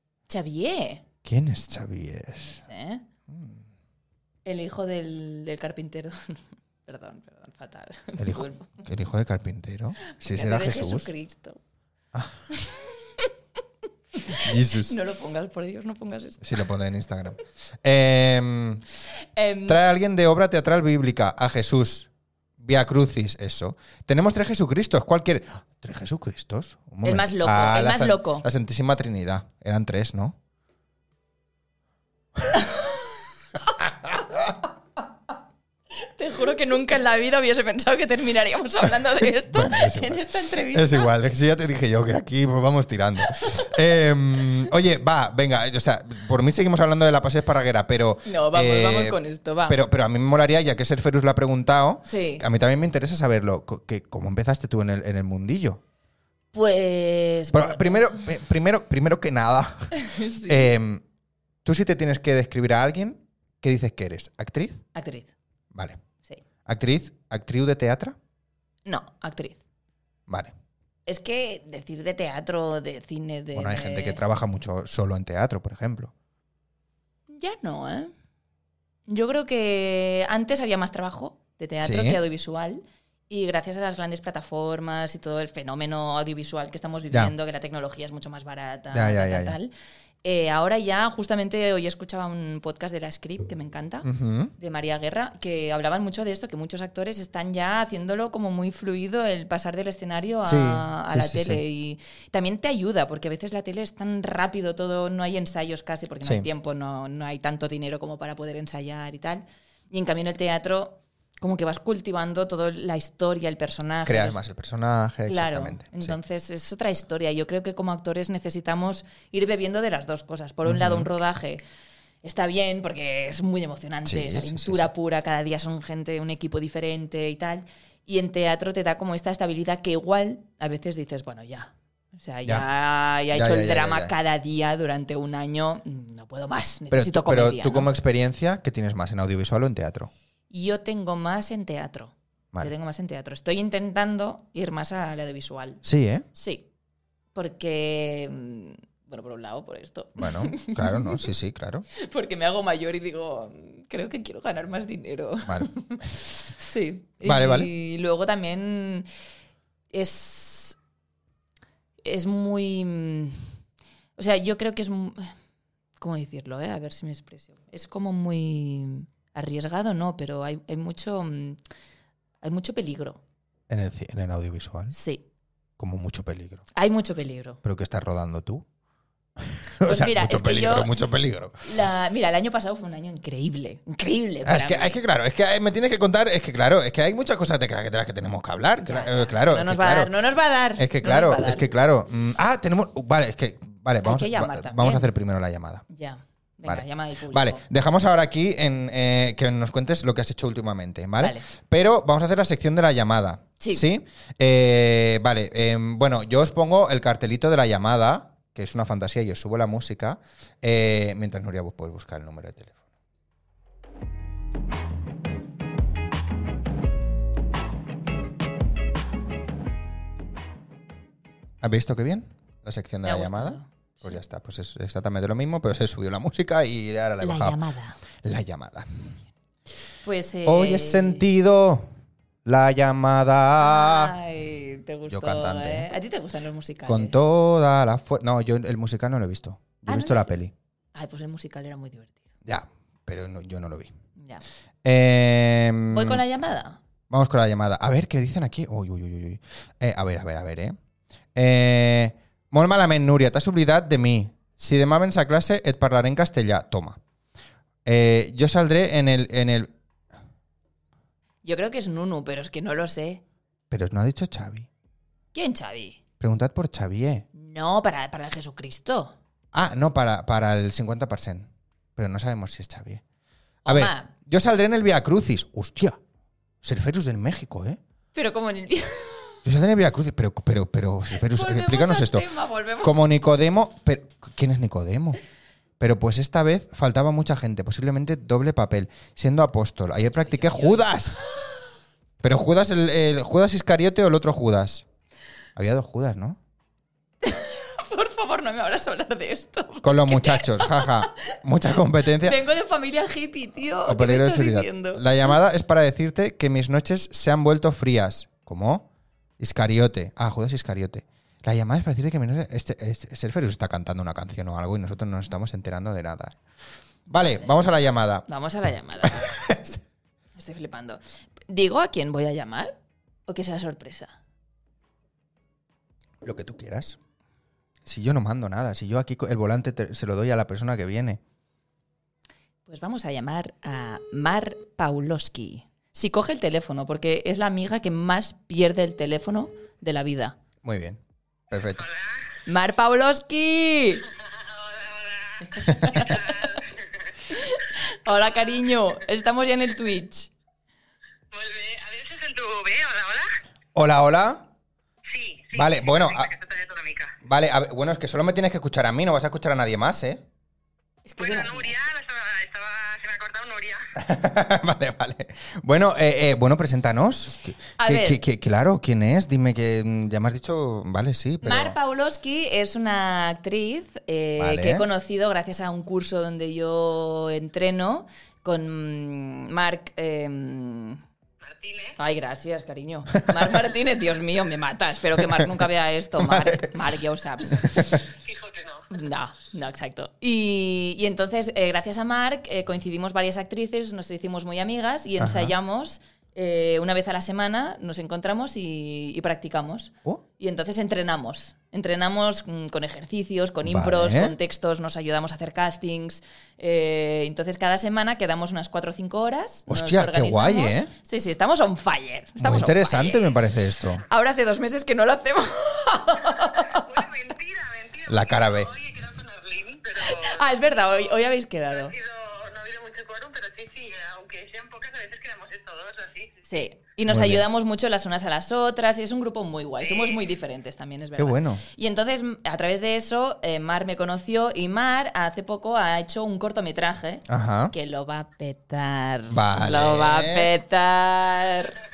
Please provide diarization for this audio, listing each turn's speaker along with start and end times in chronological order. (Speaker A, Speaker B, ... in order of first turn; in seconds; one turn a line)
Speaker A: 0.3-1.0
Speaker B: 1.2-2.6
Speaker A: 2.4-3.0
Speaker B: 3.3-3.6
Speaker A: 4.5-8.8
Speaker B: 8.2-11.1
Speaker A: 10.1-11.6
Speaker B: 12.1-12.4
Speaker A: 12.5-13.3
Speaker A: 14.2-16.7
Speaker B: 14.3-15.0
Speaker B: 16.4-18.8
Speaker A: 19.4-19.8
Speaker B: 19.7-30.4
Speaker A: 27.0-28.4
Speaker A: 32.5-32.9
Speaker A: 36.0-41.1
Speaker B: 39.2-55.8
Speaker A: 48.2-49.8
Speaker A: 52.1-52.4
Speaker A: 56.5-58.2
Speaker B: 57.5-61.0
Speaker A: 59.9-60.7
Speaker B: 61.6-64.8
Speaker A: 65.0-65.3
Speaker B: 65.7-66.0
Speaker B: 66.7-68.2
Speaker A: 68.9-69.6
Speaker B: 70.3-70.5
Speaker A: 71.1-74.2
Speaker B: 73.5-76.1
Speaker A: 77.3-78.1
Speaker A: 79.1-89.7
Speaker B: 81.8-82.2
Speaker B: 88.9-89.6
Speaker A: 90.2-114.4
Speaker B: 94.0-94.5
Speaker B: 100.4-101.6
Speaker B: 114.1-116.2
Speaker A: 115.3-121.6
Speaker B: 120.7-121.1
Speaker A: 122.2-137.9
Speaker B: 124.0-124.9
Speaker B: 133.3-134.1
Speaker B: 136.9-140.1
Speaker A: 140.5-146.7
Speaker B: 145.8-146.3
Speaker A: 147.3-151.3
Speaker B: 150.2-151.9
Speaker A: 151.9-159.1
Speaker B: 155.4-155.7
Speaker B: 157.2-157.7
Speaker A: 159.9-160.8
Speaker A: 162.0-163.5
Speaker A: 164.2-165.3
Speaker A: 166.0-171.6
Speaker A: 172.4-173.2
Speaker B: 173.7-174.9
Speaker A: 174.9-175.2
Speaker B: 175.8-176.7
Speaker A: 176.8-177.6
Speaker B: 177.6-178.7
Speaker B: 179.4-181.7
Speaker A: 179.8-180.9
Speaker A: 181.6-185.0
Speaker B: 184.4-190.1
Speaker A: 188.8-191.7
Speaker B: 190.8-195.8
Speaker A: 194.0-195.1
Speaker A: 195.9-197.6
Speaker B: 196.7-212.8
Speaker A: 201.2-201.5
Speaker B: 221.6-227.6
Speaker A: 223.0-224.2
Speaker A: 227.2-228.0
Speaker B: 228.2-229.2
Speaker A: 230.0-231.2
Speaker B: 230.5-231.9
Speaker B: 232.4-234.1
Speaker A: 233.6-237.2
Speaker B: 235.1-235.9
Speaker B: 236.9-240.5
Speaker A: 239.9-240.3
Speaker A: 240.9-242.3
Speaker B: 242.4-243.9
Speaker A: 244.2-244.4
Speaker B: 244.8-246.2
Speaker A: 245.9-246.8
Speaker B: 247.1-250.8
Speaker B: 251.3-257.0
Speaker B: 257.9-259.7
Speaker A: 261.4-263.2
Speaker B: 263.7-264.7
Speaker A: 265.3-266.0
Speaker B: 266.2-267.3
Speaker A: 267.3-269.1
Speaker B: 269.5-273.0
Speaker A: 273.6-274.1
Speaker B: 273.7-276.0
Speaker B: 276.6-277.8
Speaker A: 278.1-279.4
Speaker B: 279.4-282.3
Speaker A: 281.1-283.0
Speaker B: 282.8-285.2
Speaker B: 285.8-291.2
Speaker A: 290.2-290.9
Speaker B: 292.2-294.9
Speaker B: 295.6-296.4
Speaker A: 297.2-301.3
Speaker B: 299.8-302.4
Speaker A: 302.2-305.1
Speaker B: 303.9-308.9
Speaker B: 309.4-316.4
Speaker B: 317.1-318.3
Speaker A: 318.3-319.3
Speaker B: 319.1-319.8
Speaker A: 320.4-322.8
Speaker A: 323.3-324.2
Speaker B: 326.2-327.0
Speaker B: 327.9-331.2
Speaker A: 332.7-340.4
Speaker B: 340.6-341.8
Speaker C: 341.7-342.4
Speaker A: 342.5-344.1
Speaker C: 344.1-347.1
Speaker A: 345.5-346.6
Speaker A: 347.3-350.3
Speaker C: 348.1-348.6
Speaker C: 351.3-353.3
Speaker B: 353.8-354.5
Speaker C: 355.1-357.2
Speaker B: 355.5-356.3
Speaker B: 357.2-360.2
Speaker A: 361.1-361.8
Speaker C: 361.2-363.9
Speaker B: 364.0-371.8
Speaker A: 367.8-368.2
Speaker A: 371.4-381.0
Speaker B: 374.4-374.9
Speaker C: 381.4-382.0
Speaker A: 382.0-388.0
Speaker B: 386.2-386.7
Speaker B: 387.5-388.0
Speaker C: 388.1-388.9
Speaker A: 388.9-413.3
Speaker B: 395.2-395.5
Speaker B: 403.6-404.4
Speaker B: 409.7-410.9
Speaker B: 412.4-414.0
Speaker A: 414.1-417.1
Speaker C: 416.4-426.4
Speaker B: 418.1-418.7
Speaker A: 420.0-421.9
Speaker A: 426.5-441.8
Speaker B: 427.1-427.4
Speaker C: 429.8-430.3
Speaker B: 431.2-431.6
Speaker B: 437.3-437.7
Speaker B: 439.3-440.5